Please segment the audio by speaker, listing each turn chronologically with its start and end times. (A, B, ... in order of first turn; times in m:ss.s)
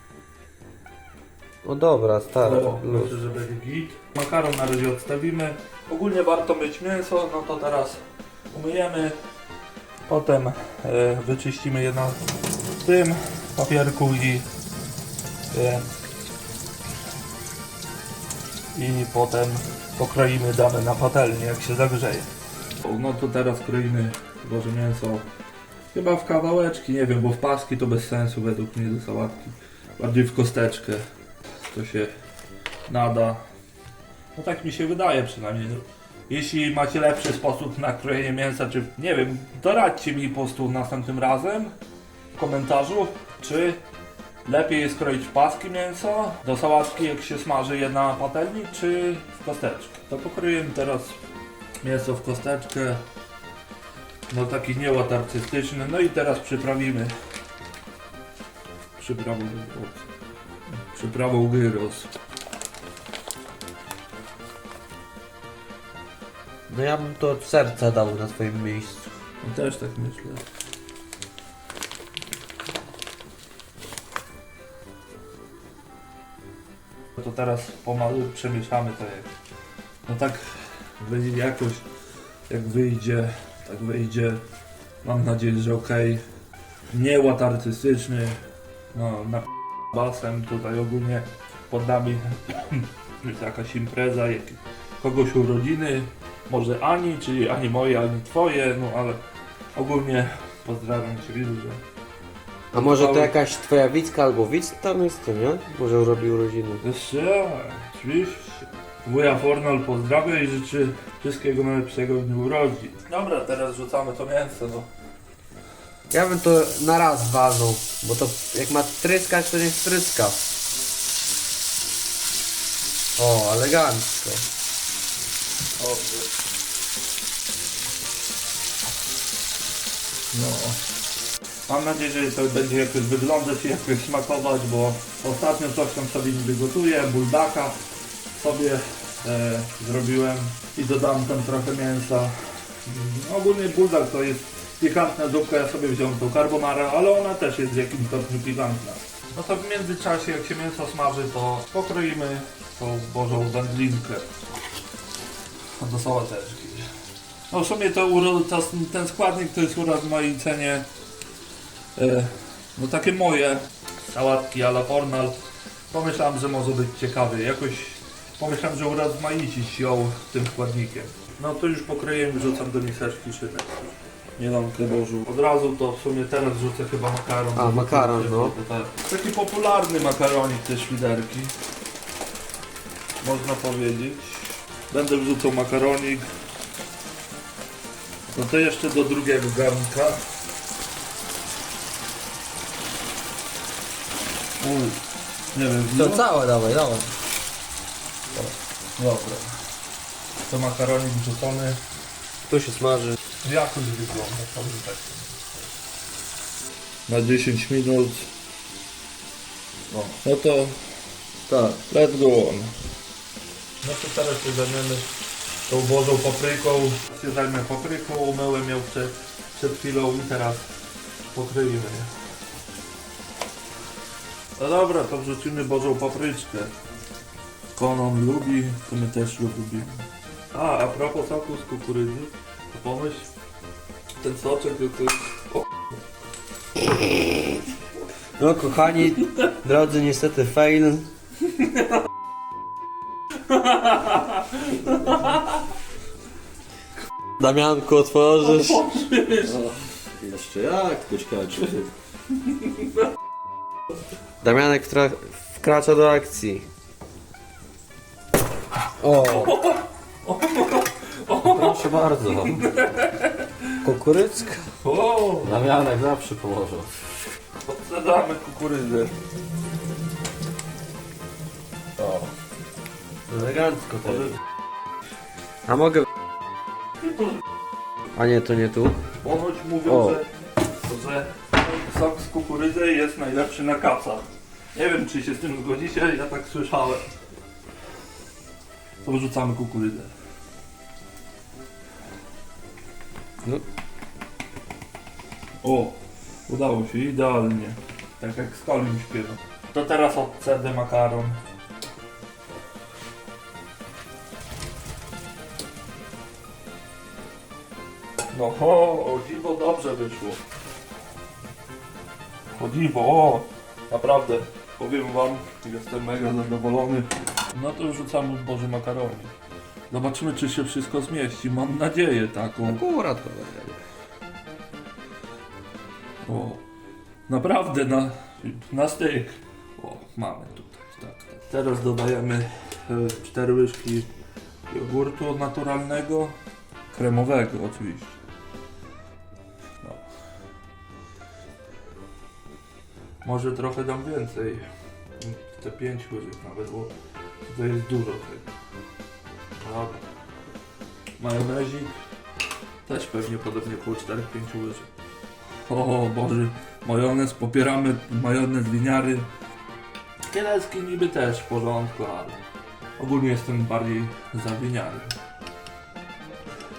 0:01.6-0:03.2 A
0:02.4-0:08.0 B
0:08.5-0:09.2 B
0:10.1-0:12.3 B
0:12.8-0:14.4 B
0:15.5-0:15.8 B
0:18.7-0:22.3 B
0:22.8-0:25.2 B
0:25.9-0:31.0 B
0:31.6-0:32.1 B
0:32.9-0:33.4 B
0:34.3-0:41.7 B
0:42.4-0:43.8 B
0:44.4-0:51.2 B
0:51.8-0:53.0 B
0:54.3-0:57.1 B
0:59.0-1:00.1 B
1:00.9-1:02.1 B
1:06.7-1:09.1 A
1:09.4-1:10.4 B
1:17.1-1:19.3 B
1:20.1-1:21.9 B
1:22.5-1:24.4 B
1:25.0-1:26.2 B
1:26.9-1:28.4 B
1:28.9-1:39.2 B
1:39.7-1:41.8 B
1:42.7-1:46.8 A
1:42.7-1:43.3 B
1:46.8-1:54.9 B
1:56.1-2:00.4 A
2:03.2-2:04.4 A
2:05.8-2:06.3 B
2:10.3-2:10.8 B
2:11.7-2:17.8 B
2:18.3-2:34.3 B
2:35.8-2:36.9 B
2:37.5-2:40.8 B
2:42.0-2:45.4 B
2:45.9-2:53.8 B
2:54.4-3:01.5 B
2:57.6-2:58.5 A
3:03.2-3:06.3 B
3:08.3-3:10.2 B
3:14.6-3:15.0 B
3:15.5-3:16.2 B
3:15.9-3:17.1 A
3:18.4-3:19.5 B
3:20.4-3:21.8 B
3:22.5-3:23.2 A
3:23.4-3:25.4 B
3:27.1-3:28.3 B
3:30.2-3:30.8 B
3:31.6-3:32.7 B
3:33.8-3:35.1 B
3:35.7-3:40.7 B
3:41.3-3:42.1 B
3:44.6-3:46.7 B
3:47.7-3:53.3 B
3:54.2-3:55.7 B
3:57.0-3:57.3 A
3:58.4-4:01.1 A
3:59.2-3:59.4 B
4:03.5-4:05.4 B
4:07.4-4:08.8 A
4:08.4-4:09.6 B
4:09.4-4:11.9 C
4:14.4-4:16.6 A
4:19.0-4:19.5 A
4:19.2-4:23.9 B
4:21.4-4:22.6 A
4:23.8-4:24.7 A
4:24.8-4:25.6 B
4:25.4-4:27.0 A
4:27.6-4:29.1 B
4:33.3-4:34.3 A
4:35.7-4:36.0 A
4:38.1-4:39.0 A
4:39.2-4:40.3 B
4:39.8-4:40.2 A
4:40.8-4:47.1 B
4:49.0-4:50.1 B
4:55.6-5:01.4 B
5:08.3-5:10.4 B
5:12.6-5:19.3 B
5:19.9-5:22.8 B
5:22.6-5:23.8 A
5:26.2-5:26.6 B
5:27.3-5:34.1 B
5:34.7-5:36.4 B
5:36.9-5:38.2 B
5:43.2-5:44.6 B
5:45.2-5:46.9 B
5:47.5-5:48.5 B
5:49.6-5:50.0 B
5:51.2-5:51.9 B
5:52.8-5:54.9 B
5:55.7-5:59.3 B
6:00.3-6:02.4 B
6:03.0-6:05.1 B